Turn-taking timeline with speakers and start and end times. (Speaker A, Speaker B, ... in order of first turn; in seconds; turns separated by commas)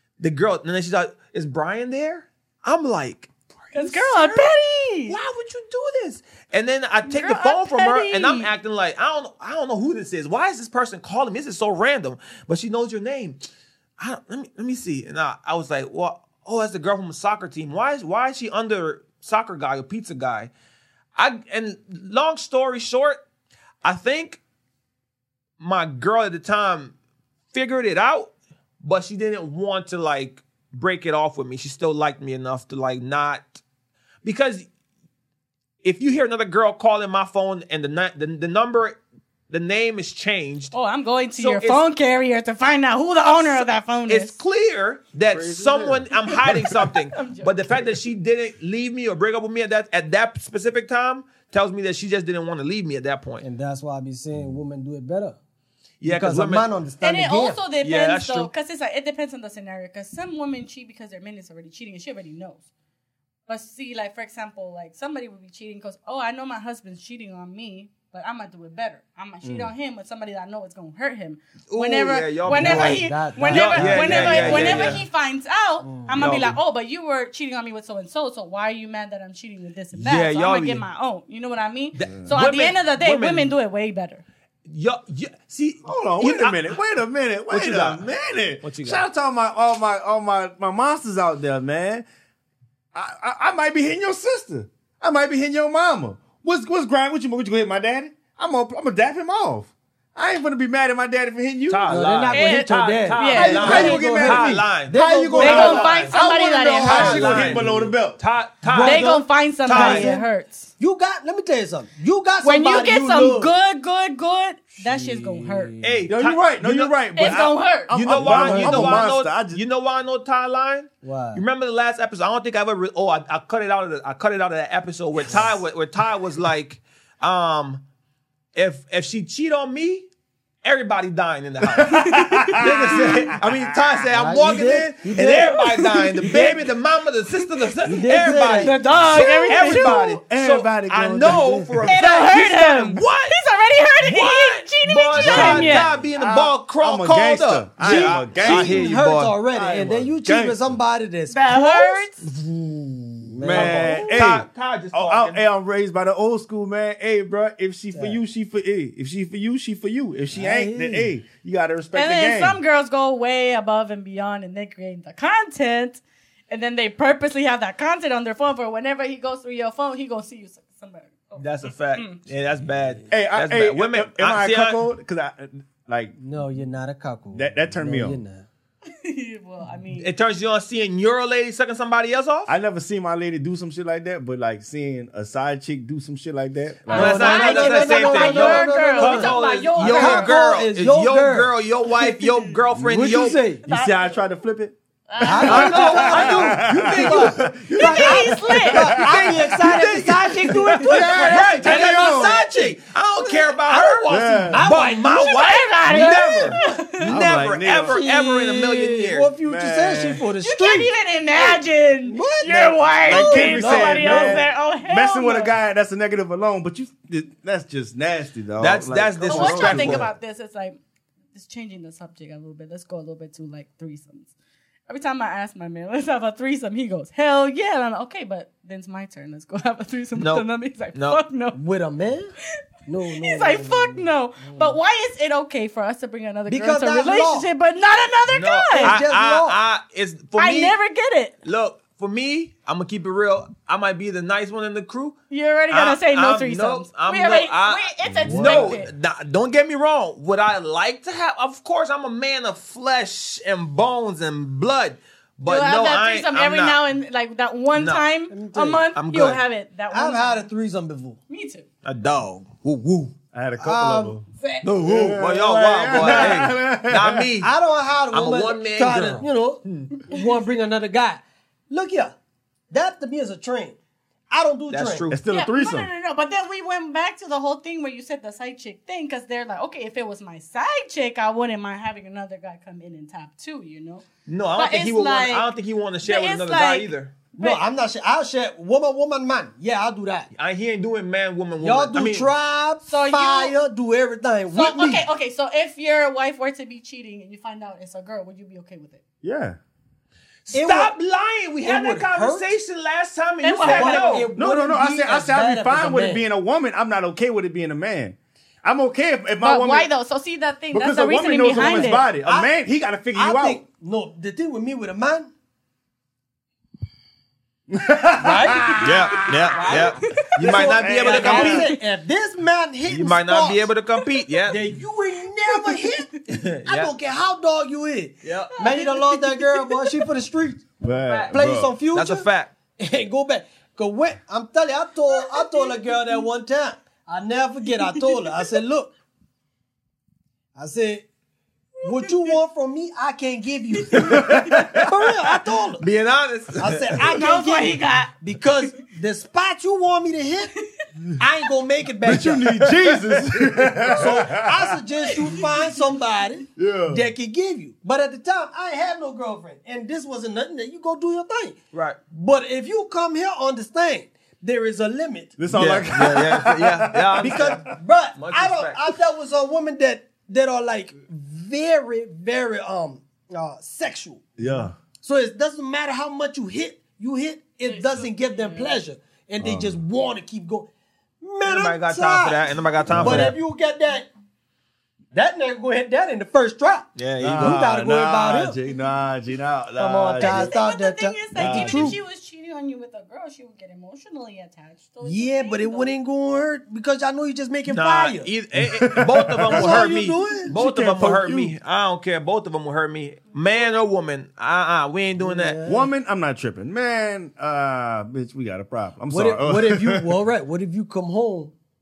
Speaker A: 0.2-4.5, Speaker B: 3.7-5.2, Speaker A: 5.1-13.4, Speaker B: 7.1-8.5, Speaker A: 14.0-20.5, Speaker A: 21.2-23.2, Speaker A: 23.8-24.4, Speaker A: 25.6-26.9, Speaker A: 27.5-33.6, Speaker A: 34.2-34.7, Speaker A: 35.8-39.0, Speaker A: 39.5-40.8, Speaker B: 40.7-44.4, Speaker A: 41.4-41.8, Speaker A: 43.4-53.5, Speaker C: 45.3-46.8, Speaker B: 46.2-47.9, Speaker D: 53.4-55.4, Speaker A: 56.0-56.7, Speaker D: 56.0-57.6, Speaker B: 57.0-62.6, Speaker A: 57.8-58.5, Speaker B: 63.5-84.2, Speaker C: 69.4-69.7, Speaker A: 71.7-75.0, Speaker D: 72.5-75.0, Speaker D: 75.8-76.2, Speaker A: 76.2-76.6, Speaker A: 79.9-80.8, Speaker A: 82.0-83.5, Speaker A: 84.7-86.8, Speaker C: 85.8-92.0, Speaker A: 87.5-89.0, Speaker C: 92.9-102.1, Speaker A: 101.7-106.2, Speaker D: 101.9-106.0, Speaker B: 102.3-104.0, Speaker C: 103.3-108.2, Speaker B: 105.3-107.6, Speaker A: 106.8-110.1, Speaker D: 107.4-107.9, Speaker D: 108.6-110.3, Speaker B: 108.8-110.7, Speaker D: 110.8-113.5, Speaker B: 112.4-115.8, Speaker D: 114.8-116.1, Speaker A: 115.8-127.8, Speaker C: 116.1-119.6, Speaker B: 117.2-117.9, Speaker D: 118.1-119.1, Speaker D: 121.0-121.4, Speaker A: 128.6-130.1, Speaker A: 130.6-132.0, Speaker C: 131.6-133.6, Speaker B: 131.9-132.8, Speaker A: 132.6-143.4, Speaker D: 132.6-133.4, Speaker D: 134.1-135.8, Speaker B: 135.4-136.6, Speaker D: 137.8-139.0, Speaker B: 138.0-140.1, Speaker C: 139.0-141.9, Speaker D: 141.2-142.0, Speaker B: 141.9-145.9, Speaker A: 144.0-149.4, Speaker C: 145.2-148.9, Speaker D: 145.3-145.5, Speaker D: 147.8-154.1, Speaker C: 149.5-150.7, Speaker B: 151.3-152.2, Speaker C: 153.3-162.6, Speaker A: 153.4-155.4, Speaker D: 157.9-158.2, Speaker D: 160.3-161.1, Speaker B: 161.9-172.2, Speaker A: 171.4-174.8, Speaker C: 173.1-176.2, Speaker D: 176.2-178.5, Speaker C: 177.3-178.2, Speaker B: 178.9-180.1, Speaker A: 179.9-182.5, Speaker C: 182.5-187.4, Speaker B: 186.9-190.2, Speaker D: 186.9-191.5, Speaker A: 186.9-193.5, Speaker C: 189.8-190.3, Speaker B: 192.0-192.6, Speaker C: 192.7-200.0, Speaker D: 192.9-193.6, Speaker B: 193.7-194.2, Speaker B: 195.1-196.2, Speaker D: 195.2-202.8, Speaker A: 195.4-198.3, Speaker B: 197.8-199.1, Speaker A: 199.0-209.3, Speaker C: 200.8-202.4, Speaker B: 203.2-204.5, Speaker C: 204.1-204.7, Speaker D: 204.5-206.8, Speaker B: 205.0-207.1, Speaker C: 207.0-208.0, Speaker D: 207.9-214.4, Speaker C: 209.4-210.2, Speaker B: 210.4-215.6, Speaker C: 213.1-220.1, Speaker A: 218.6-220.1, Speaker B: 219.3-220.8, Speaker B: 221.3-224.3, Speaker B: 224.9-231.6, Speaker A: 230.2-231.2, Speaker D: 231.5-232.3, Speaker D: 232.9-234.8, Speaker B: 233.1-239.0, Speaker D: 236.5-237.5, Speaker A: 238.3-240.8, Speaker D: 238.8-239.6, Speaker B: 240.4-241.3, Speaker A: 241.4-245.2, Speaker B: 245.3-248.9, Speaker A: 245.7-256.8, Speaker C: 248.0-248.7, Speaker D: 248.3-248.6, Speaker B: 255.4-260.5, Speaker A: 257.7-258.0, Speaker D: 258.3-258.8, Speaker A: 258.9-259.4, Speaker D: 259.9-261.2, Speaker B: 261.3-261.7, Speaker A: 261.9-263.1, Speaker C: 263.3-267.3, Speaker D: 263.6-264.2, Speaker A: 264.6-267.5, Speaker D: 265.9-266.4, Speaker D: 267.4-272.2, Speaker A: 268.1-269.9, Speaker D: 272.7-273.8, Speaker D: 274.3-275.1, Speaker A: 274.7-275.2, Speaker C: 275.1-275.9, Speaker B: 275.3-284.1, Speaker A: 284.3-287.1, Speaker B: 284.6-287.6, Speaker D: 287.4-290.3, Speaker A: 290.3-292.3, Speaker D: 291.6-295.1, Speaker B: 292.8-293.6, Speaker B: 294.5-299.0, Speaker C: 299.2-299.6, Speaker A: 300.5-304.3, Speaker D: 300.5-300.9, Speaker D: 301.6-302.5, Speaker B: 303.4-304.3, Speaker D: 303.7-306.2, Speaker C: 304.4-309.9, Speaker B: 309.4-312.1, Speaker C: 310.7-313.6, Speaker D: 311.6-312.5, Speaker D: 313.1-315.3, Speaker C: 317.7-319.9, Speaker D: 318.2-323.7, Speaker A: 318.8-321.7, Speaker B: 320.1-320.8, Speaker C: 320.4-321.7, Speaker B: 321.3-321.8, Speaker A: 322.9-324.6, Speaker D: 324.5-330.7, Speaker B: 325.5-325.9, Speaker A: 326.3-326.9, Speaker A: 328.2-328.6, Speaker B: 328.6-330.1, Speaker C: 330.8-331.7, Speaker A: 331.1-331.4, Speaker D: 331.3-332.3, Speaker A: 331.9-332.5, Speaker D: 332.8-338.9, Speaker B: 335.1-336.2, Speaker B: 337.7-338.6, Speaker D: 340.6-341.1, Speaker B: 341.8-342.4, Speaker D: 341.8-345.8, Speaker B: 343.7-344.9, Speaker C: 343.9-344.9, Speaker A: 345.8-347.2, Speaker D: 346.6-350.5, Speaker B: 347.0-348.7, Speaker D: 351.2-353.4, Speaker C: 352.0-354.8, Speaker D: 353.9-361.6, Speaker B: 355.0-355.7, Speaker C: 356.6-357.0, Speaker A: 361.7-362.0, Speaker D: 362.1-365.7, Speaker C: 365.4-367.7, Speaker A: 365.5-367.6, Speaker D: 367.2-374.2, Speaker A: 368.2-368.8, Speaker C: 374.4-374.8, Speaker D: 375.0-380.7, Speaker B: 377.7-378.8, Speaker C: 379.4-379.8, Speaker D: 381.2-384.1, Speaker A: 381.4-383.4, Speaker C: 382.9-383.4, Speaker D: 385.1-388.6, Speaker A: 387.0-387.6, Speaker C: 387.2-390.6, Speaker D: 389.8-392.0, Speaker B: 390.2-395.9, Speaker C: 391.4-392.0, Speaker D: 395.0-398.3, Speaker A: 397.7-405.6, Speaker C: 398.6-401.6, Speaker D: 399.5-400.6, Speaker D: 405.2-405.9, Speaker C: 405.7-410.1, Speaker D: 409.1-411.5